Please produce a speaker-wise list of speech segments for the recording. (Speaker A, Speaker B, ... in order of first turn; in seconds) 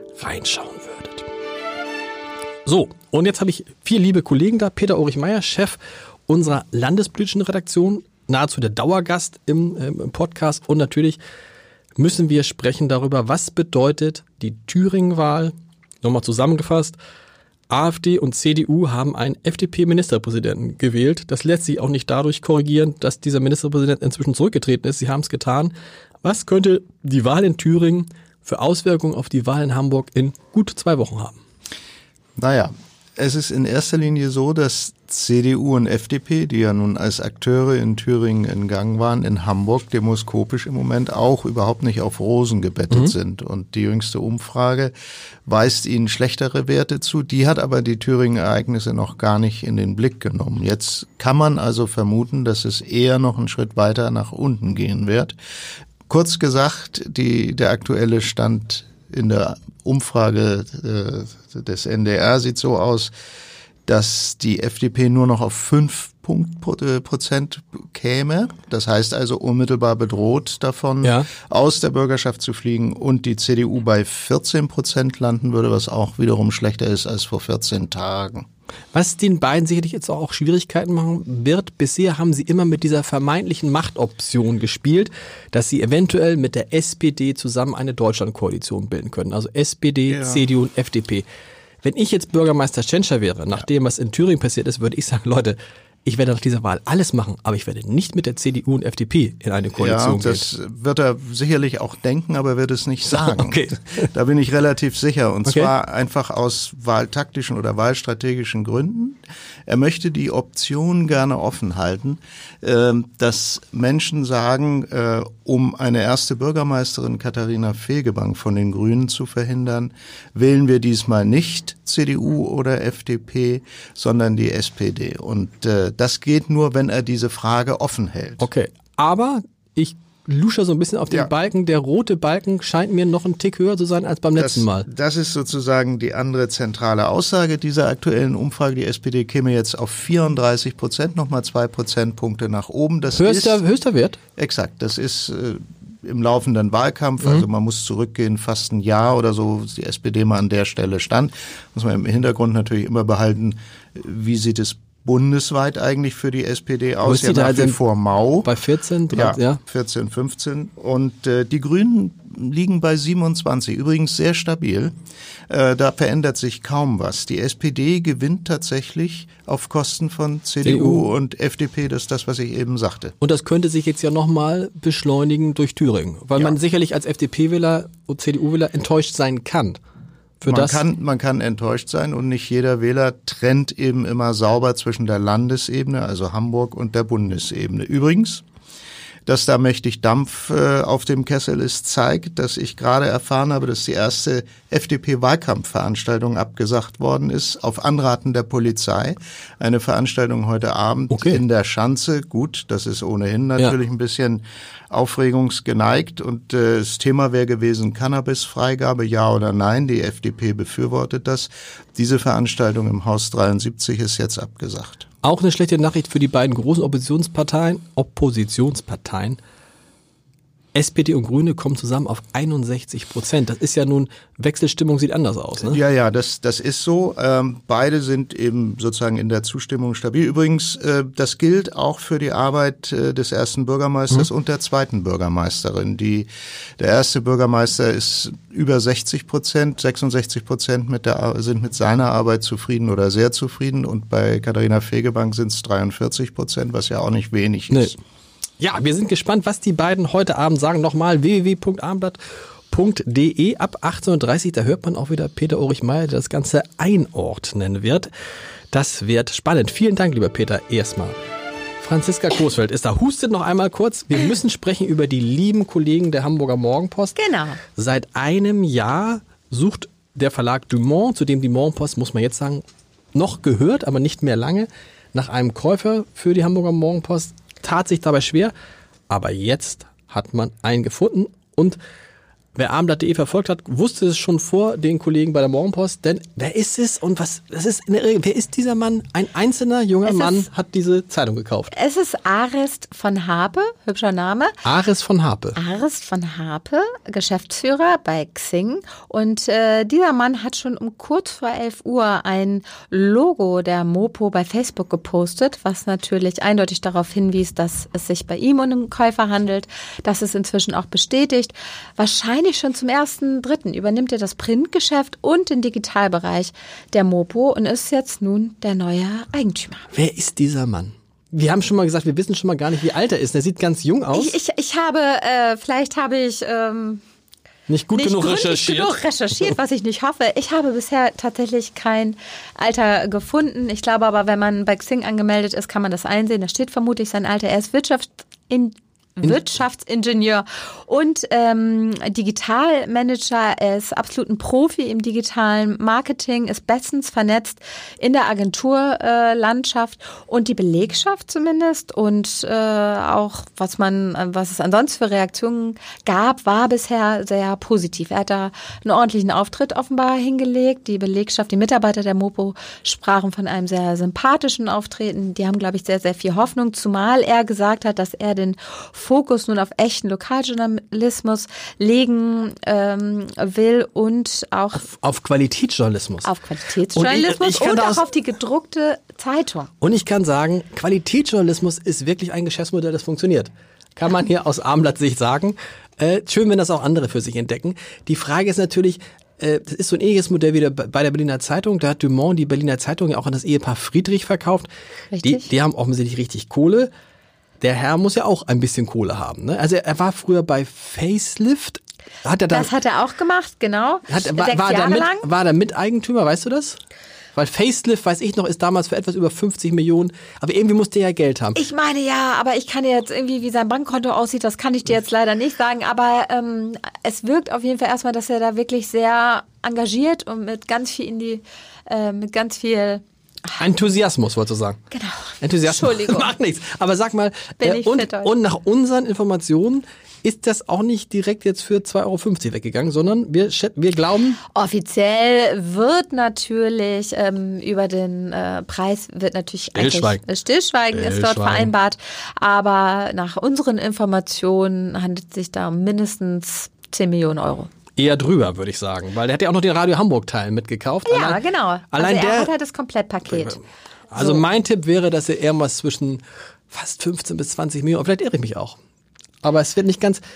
Speaker A: 0.2-1.3, 2.6-11.2, 12.0-17.0, 17.7-31.4, 71.0-71.3, 78.9-91.2, 91.8-100.5, 103.1-104.0, 128.4-134.8, 143.1-144.2, 157.0-157.8, 158.4-159.6, 170.6-171.1, 173.2-179.8, 180.4-180.8, 201.1-201.4, 215.2-219.4, 220.7-225.8, 248.6-252.2, 252.7-258.1, 258.7-261.1, 261.8-267.2, 267.7-278.5, 279.1-281.8, 282.5-291.7, 294.6-295.6, 319.9-324.3, 327.7-328.9, 374.7-376.3, 376.9-378.1, 379.8-394.7, 395.2-396.9, 397.6-402.7, 404.1-406.8, 407.3-411.6, 423.6-424.8, 425.4-434.4, 439.7-440.2, 440.9-441.7, 448.0-452.5, 453.3-458.8, 459.4-460.2
Speaker B: 32.4-44.9, 45.5-55.3, 56.1-63.1, 63.9-78.4, 90.1-90.4, 99.8-128.4, 134.4-143.6, 144.4-158.5, 159.1-164.9, 165.5-173.1, 180.5-188.4, 189.2-215.1, 225.6-236.3, 236.8-247.9
Speaker C: 267.1-267.6, 290.1-290.4, 291.7-294.5, 295.6-319.8, 324.1-327.0, 327.9-374.9, 376.2-379.7, 395.1-395.5, 402.5-405.3, 411.6-423.7, 424.9-426.3, 427.6-428.3, 434.5-447.7, 451.1-453.6, 454.2-454.4